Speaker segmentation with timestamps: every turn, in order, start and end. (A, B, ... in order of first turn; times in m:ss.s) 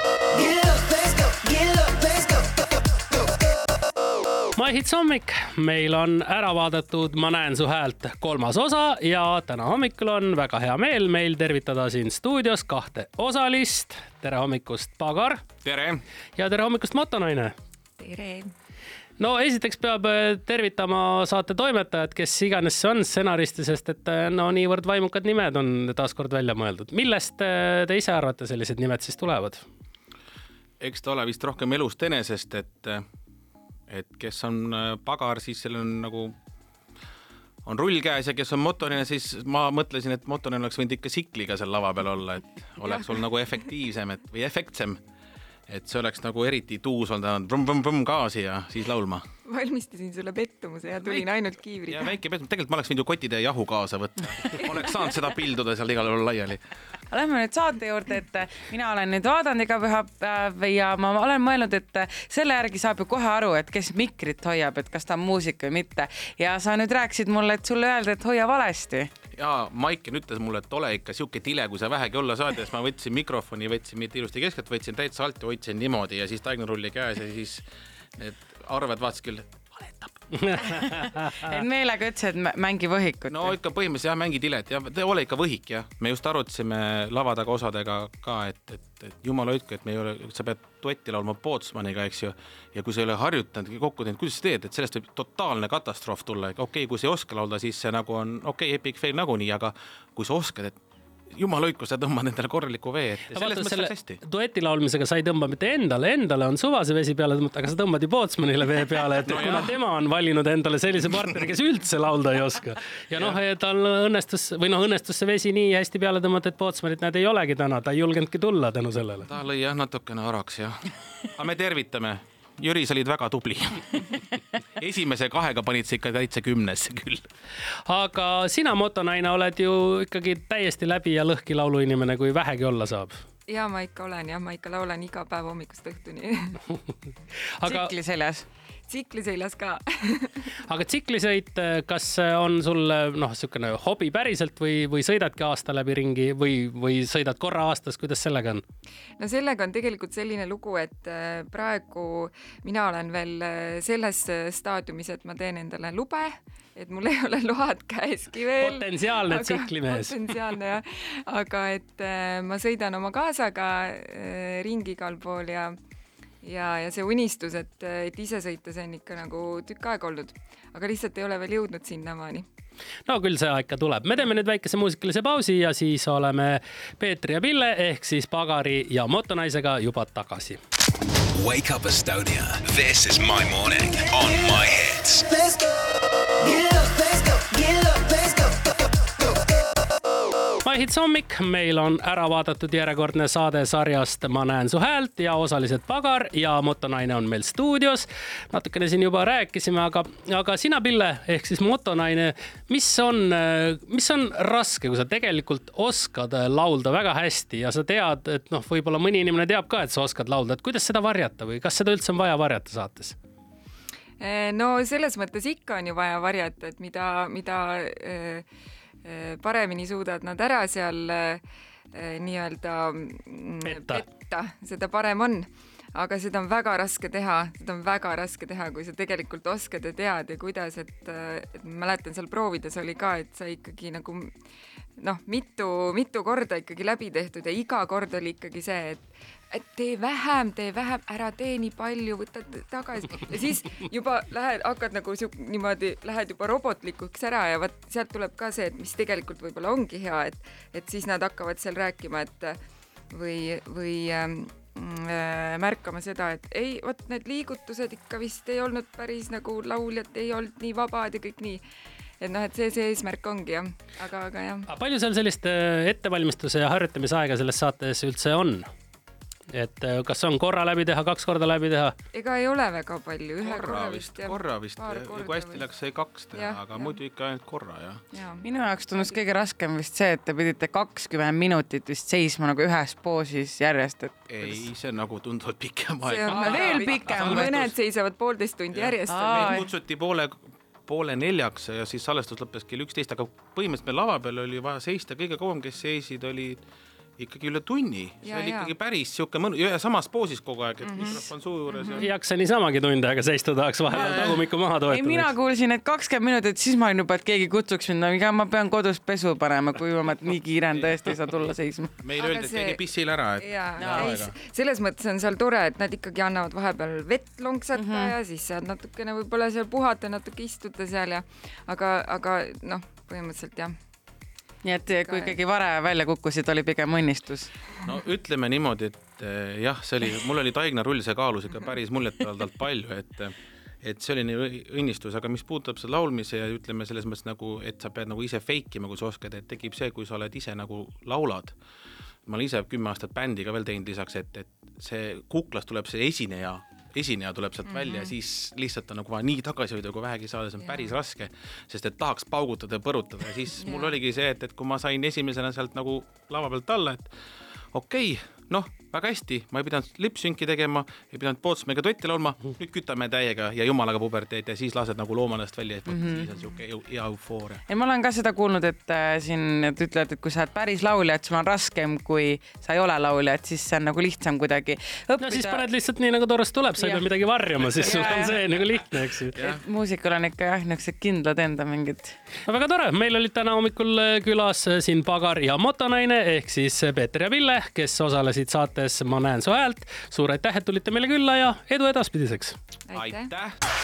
0:00.4-0:02.3 A
0:04.5-0:15.4 B
0:15.6-0:16.0 C
0:16.4-0:17.5 B
0:18.0-0:18.5 D
0:19.2-0:29.6 B
0:30.8-0:33.0 C
0:33.9-0:36.4 C
0:37.7-0:45.0 C
0:45.7-0:49.2 C
0:49.4-0:52.2 D
0:51.9-0:56.6 C
0:57.1-1:09.1 E
1:09.3-1:17.7 C
1:18.2-1:20.2 C
1:20.3-1:21.6 B
1:20.7-1:23.6 E
1:23.3-1:40.8 C
1:41.3-1:44.2 C
1:43.3-1:59.3 B
1:49.3-1:49.7 C
1:59.3-2:00.8 C
2:01.3-2:07.3 C
2:07.9-2:13.2 B
2:13.5-2:16.6 D
2:17.6-2:17.9 B
2:17.6-2:18.4 E
2:18.9-2:20.4 D
2:20.6-2:28.6 B
2:29.2-2:45.8 D
2:38.6-2:40.3 B
2:46.4-2:52.5 D
2:53.1-3:00.6 B
3:01.3-3:05.2 F
3:06.5-3:08.1 A
3:10.6-3:33.2 B
3:34.2-3:38.5 D
3:39.0-3:54.4 D
3:43.6-3:44.0 B
3:55.0-4:12.6 D
4:13.1-4:21.6 D
4:22.2-4:24.6 D
4:24.7-4:28.7 B
4:29.5-4:31.9 B
4:32.1-4:35.7 D
4:33.4-4:38.0 C
4:36.3-4:37.0 D
4:38.1-4:39.3 D
4:38.4-4:44.6 E
4:44.3-4:47.8 C
4:46.0-4:49.7 D
4:46.3-4:47.5 E
4:48.7-4:56.6 C
4:49.1-4:49.7 E
4:57.2-5:02.1 C
4:58.2-4:58.8 D
5:00.8-5:02.0 D
5:01.9-5:05.3 B
5:04.1-5:04.4 C
5:04.9-5:11.9 E
5:12.0-5:14.3 C
5:12.2-5:12.8 D
5:13.4-5:23.8 D
5:13.8-5:14.2 E
5:17.8-5:18.2 E
5:24.6-5:27.5 E
5:25.0-5:25.4 D
5:27.8-5:41.5 C
5:42.2-5:57.1 C
5:47.6-5:48.1 D
5:50.6-5:50.9 D
5:53.6-5:54.0 D
5:57.7-6:07.6 C
6:05.9-6:06.3 E
6:07.7-6:15.7 E
6:15.2-6:19.4 B
6:16.8-6:17.0 E
6:17.8-6:18.4 E
6:19.4-6:22.2 E
6:22.4-6:32.6 B
6:32.9-6:33.3 D
6:32.9-6:33.6 C